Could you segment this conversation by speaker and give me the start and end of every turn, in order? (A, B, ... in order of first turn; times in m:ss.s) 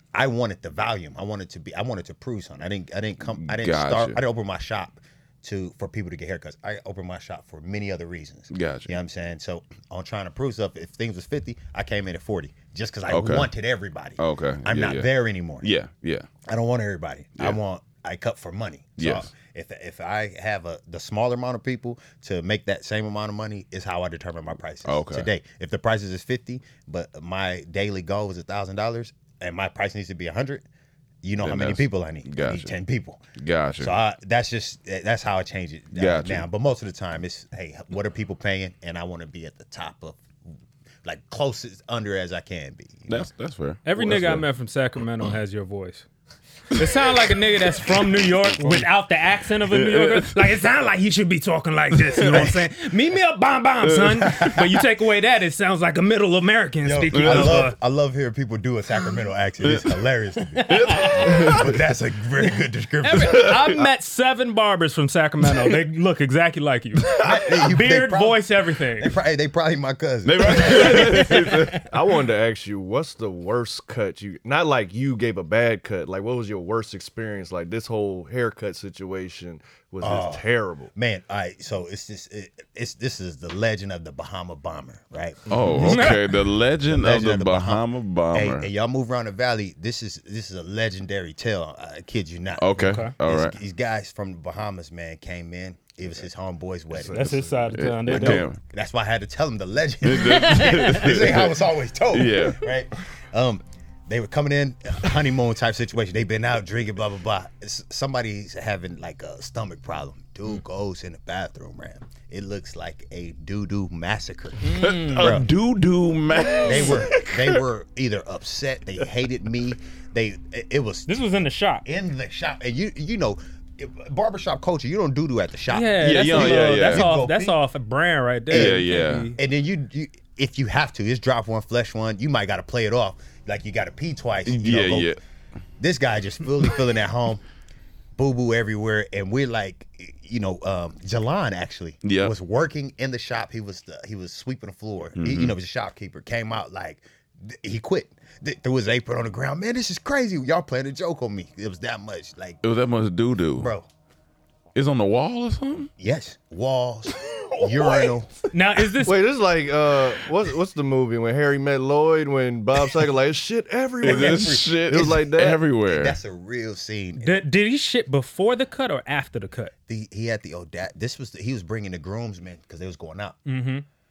0:00.1-0:15.7 A
0:03.2-0:04.2 B
0:08.5-0:08.9 B
0:13.1-0:13.5 B
0:14.2-0:15.1 B
0:15.6-0:16.3 B
0:16.5-0:30.6 A
0:19.0-0:19.3 B
0:24.9-0:25.3 B
0:31.2-0:33.2 A
0:31.4-0:32.8 B
0:33.4-0:33.9 B
0:33.8-0:40.2 A
0:35.9-0:36.4 B
0:41.0-0:43.3 A
0:43.1-0:44.4 B
0:43.8-0:46.1 C
0:46.8-0:57.8 C
0:49.7-0:50.5 B
0:52.0-0:52.5 B
0:54.2-0:54.7 A
0:56.8-1:03.7 A
0:57.1-0:57.6 B
0:59.6-1:00.0 B
1:00.6-1:01.3 C
1:00.6-1:01.7 B
1:03.0-1:09.2 C
1:03.2-1:03.8 B
1:07.2-1:11.5 A
1:10.2-1:11.8 B
1:10.9-1:11.8 C
1:11.9-1:20.9 D
1:20.0-1:26.4 A
1:25.5-1:28.7 B
1:25.8-1:26.2 C
1:26.9-1:37.4 A
1:32.6-1:33.6 B
1:32.8-1:33.1 C
1:36.9-1:37.7 D
1:37.1-1:38.5 C
1:37.7-1:38.6 B
1:38.1-1:55.5 A
1:40.0-1:42.6 B
1:40.7-1:41.0 C
1:54.6-1:55.4 C
1:54.8-1:57.6 B
1:56.6-1:56.9 C
1:56.6-2:01.2 A
2:01.1-2:01.8 C
2:01.8-2:07.6 A
2:05.7-2:09.4 C
2:06.0-2:07.1 B
2:08.5-2:15.1 A
2:08.5-2:09.3 B
2:14.5-2:15.2 B
2:15.8-2:17.4 A
2:18.2-2:32.6 A
2:22.0-2:22.3 B
2:25.2-2:25.6 B
2:32.6-2:33.7 B
2:33.6-2:33.9 A
2:34.8-2:35.9 B
2:36.0-2:38.5 A
2:38.5-2:39.2 C
2:39.0-2:45.6 D
2:44.0-2:47.4 A
2:44.0-2:46.2 B
2:47.2-2:49.7 C
2:49.9-2:53.4 A
2:53.5-2:53.8 C